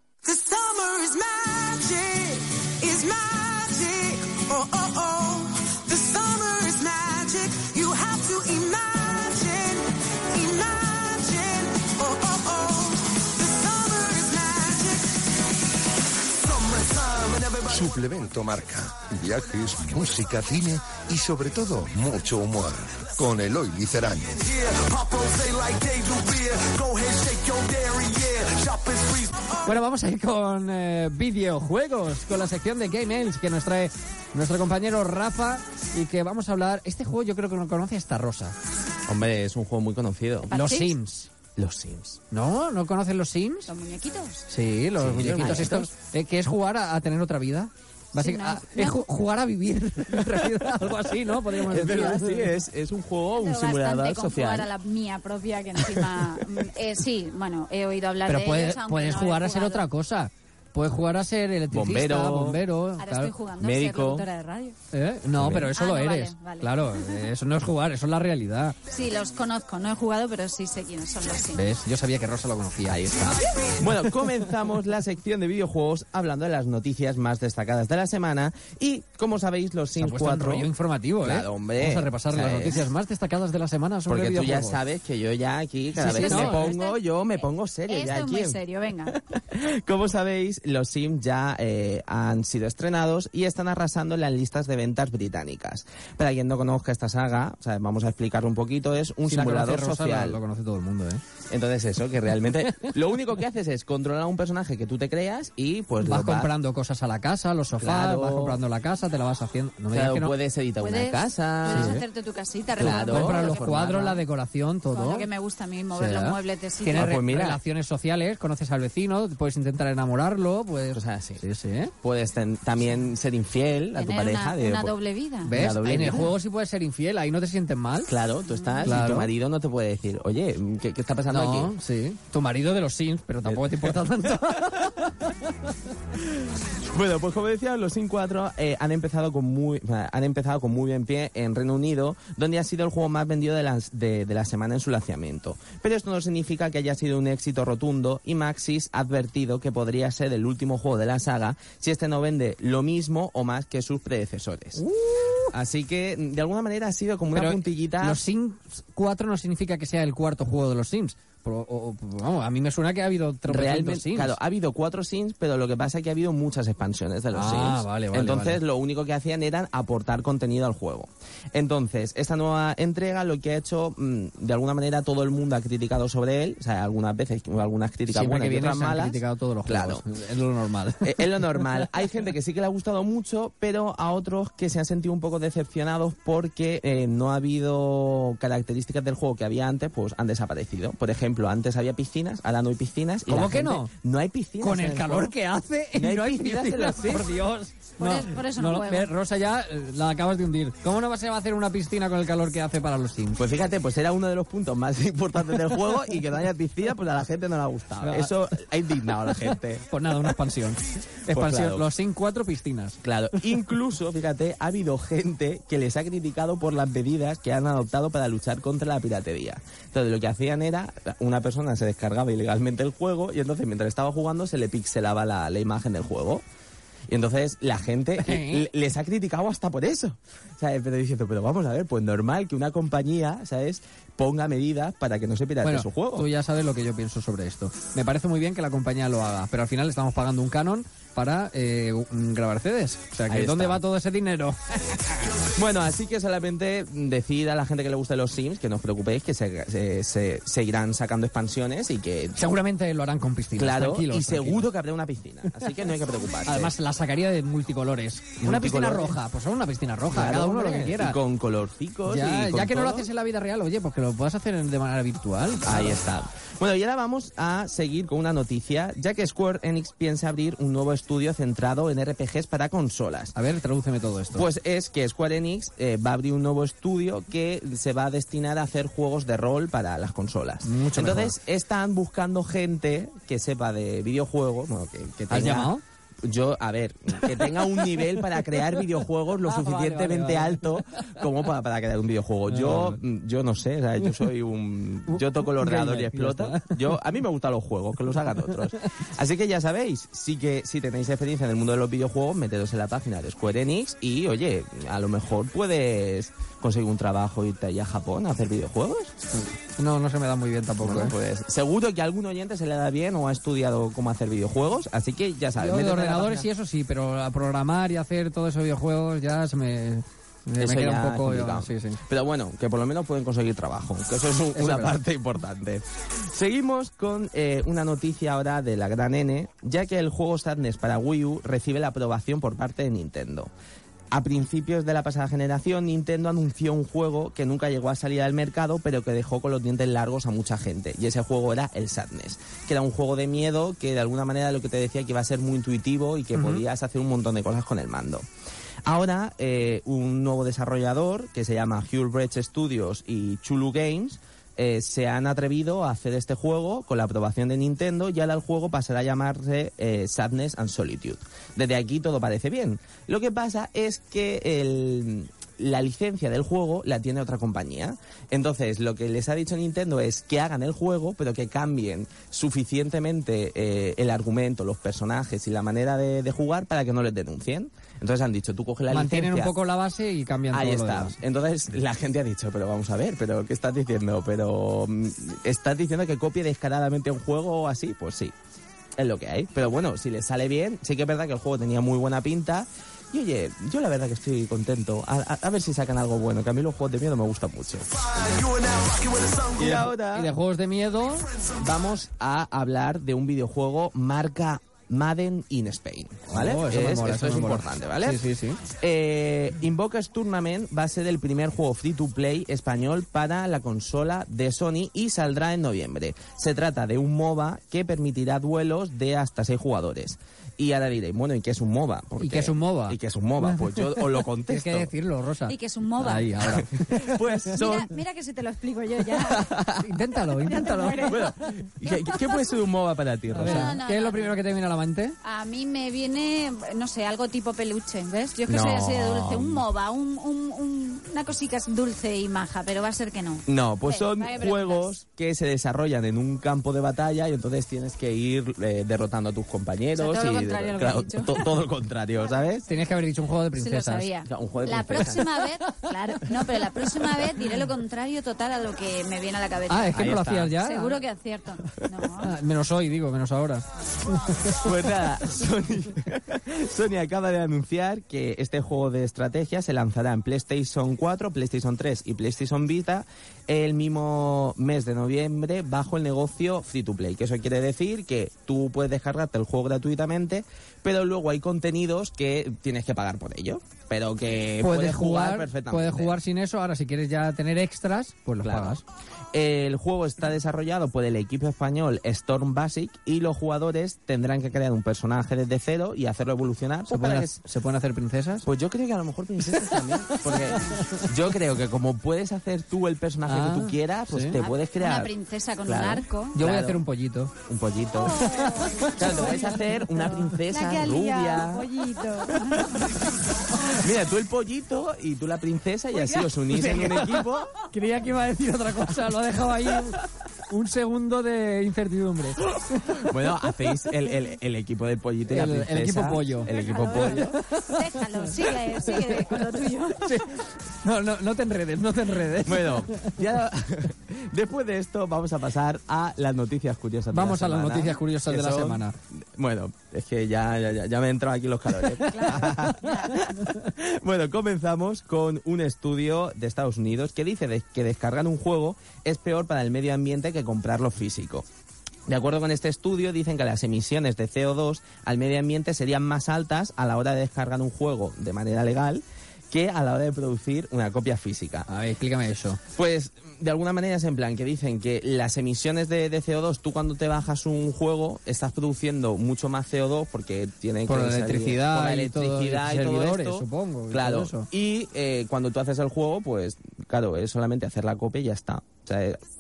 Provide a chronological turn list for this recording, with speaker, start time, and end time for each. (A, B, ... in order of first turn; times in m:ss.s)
0:00.2-0:15.0 A
0:01.2-0:02.3 B
0:03.1-0:09.8 B
0:10.7-0:15.2 B
0:16.4-0:29.4 B
0:29.6-0:38.6 C
0:39.1-0:40.5 D
0:40.5-0:41.0 E
0:40.5-0:41.3 C
0:41.6-0:42.2 D
0:42.3-0:43.7 C
0:43.7-0:44.5 E
0:44.5-0:52.5 C
0:45.0-0:45.9 D
0:48.2-0:49.1 E
0:51.6-0:54.7 D
0:53.4-0:59.8 E
0:58.3-1:03.3 C
1:01.7-1:02.6 D
1:03.0-1:04.8 E
1:03.6-1:04.3 D
1:04.9-1:08.8 C
1:05.3-1:05.7 D
1:05.7-1:07.2 E
1:08.9-1:11.6 E
1:11.5-1:13.0 C
1:12.9-1:20.7 D
1:20.0-1:24.8 C
1:21.2-1:22.9 D
1:24.1-1:40.4 D
1:26.0-1:26.7 C
1:26.0-1:29.2 E
1:39.3-1:41.2 C
1:41.5-1:46.5 D
1:46.0-1:50.3 C
1:47.8-1:48.6 D
1:49.9-1:52.0 D
1:50.8-1:53.7 E
1:51.7-1:52.0 C
1:52.8-1:54.2 D
1:52.8-1:55.3 C
1:54.9-1:57.1 E
1:55.9-2:01.9 C
1:57.0-1:57.6 D
2:00.9-2:01.4 D
2:02.0-2:05.0 D
2:04.0-2:05.6 E
2:05.5-2:08.1 C
2:05.5-2:06.3 D
2:08.1-2:11.7 D
2:08.6-2:08.9 E
2:08.8-2:09.3 C
2:11.3-2:15.3 C
2:13.4-2:14.2 D
2:16.7-2:34.8 D
2:34.8-2:35.5 C
2:35.5-2:38.2 D
2:37.3-2:44.4 C
2:43.5-3:00.0 D
2:47.3-2:48.6 C
2:58.1-3:01.7 C
3:01.0-3:15.3 D
3:13.3-3:13.9 C
3:14.6-3:23.4 C
3:16.0-3:17.3 D
3:18.0-3:19.1 E
3:23.4-3:29.9 D
3:28.0-3:28.3 C
3:29.4-3:33.0 C
3:31.3-3:31.9 D
3:33.0-3:46.4 D
3:47.1-3:56.3 D
3:48.2-3:48.7 C
3:55.6-4:05.4 C
4:03.3-4:03.8 D
4:05.5-4:12.4 D
4:12.4-4:14.7 C
4:13.6-4:16.7 D
4:16.4-4:21.2 C
4:18.4-4:19.2 D
4:20.1-4:23.1 D
4:22.1-4:26.0 C
4:25.6-4:33.4 D
4:33.4-4:34.5 C
4:34.3-5:09.2 D
4:40.6-4:41.4 C
4:45.3-4:45.8 C
4:47.8-4:48.1 C
4:49.4-4:50.6 C
4:52.5-4:53.0 C
4:55.1-4:56.9 C
5:09.8-5:11.1 C
5:10.8-5:16.5 D
5:15.6-5:22.0 C
5:20.6-5:33.5 D
5:24.6-5:25.0 C
5:34.1-5:48.2 D
5:46.4-5:46.6 C
5:48.9-6:19.5 D
6:18.9-6:21.2 C
6:20.5-6:28.3 D
6:29.0-6:37.9 D
6:39.1-6:40.3 D
6:39.6-6:41.3 C
6:41.6-6:48.2 D
6:46.3-6:48.6 C
6:48.8-7:04.9 D
7:02.2-7:07.2 C
7:05.5-7:06.4 E
7:06.5-7:07.9 D
7:07.5-7:09.5 E
7:09.3-7:09.8 D
7:09.7-7:11.3 C
7:10.4-7:11.3 E
7:11.1-7:13.8 D
7:11.8-7:12.3 E
7:13.3-7:15.2 C
7:13.4-7:14.4 E
7:15.2-7:24.9 E
7:18.5-7:19.6 D
7:23.5-7:32.6 D
7:30.0-7:31.6 E
7:32.7-7:34.1 C
7:33.6-7:42.3 E
7:34.3-7:35.2 D
7:35.0-7:35.7 C
7:39.7-7:41.0 C
7:39.9-7:40.5 D
7:42.2-7:43.6 C
7:44.2-7:44.7 C
7:44.6-8:06.2 D
8:04.6-8:08.8 C
8:08.4-8:08.8 D
8:09.3-8:17.4 D
8:16.9-8:18.5 C
8:18.4-8:25.1 D
8:19.5-8:21.1 C
8:23.2-8:24.4 C
8:24.4-8:26.4 E
8:25.6-8:26.8 D
8:26.3-8:27.3 C
8:27.5-8:28.3 D
8:28.0-8:29.6 E
8:28.4-8:29.0 C
8:29.0-8:31.7 D
8:30.4-8:33.0 E
8:33.6-8:37.5 D
8:36.2-8:43.1 C
8:43.0-8:47.3 D
8:45.3-8:47.8 C
8:46.3-8:50.2 E
8:48.9-8:49.4 C
8:50.0-8:53.2 C
8:52.4-9:11.5 D
8:57.1-8:59.0 C
9:02.1-9:03.2 E
9:12.1-9:21.7 D
9:21.7-9:22.6 C
9:22.8-9:39.2 D
9:30.9-9:34.5 C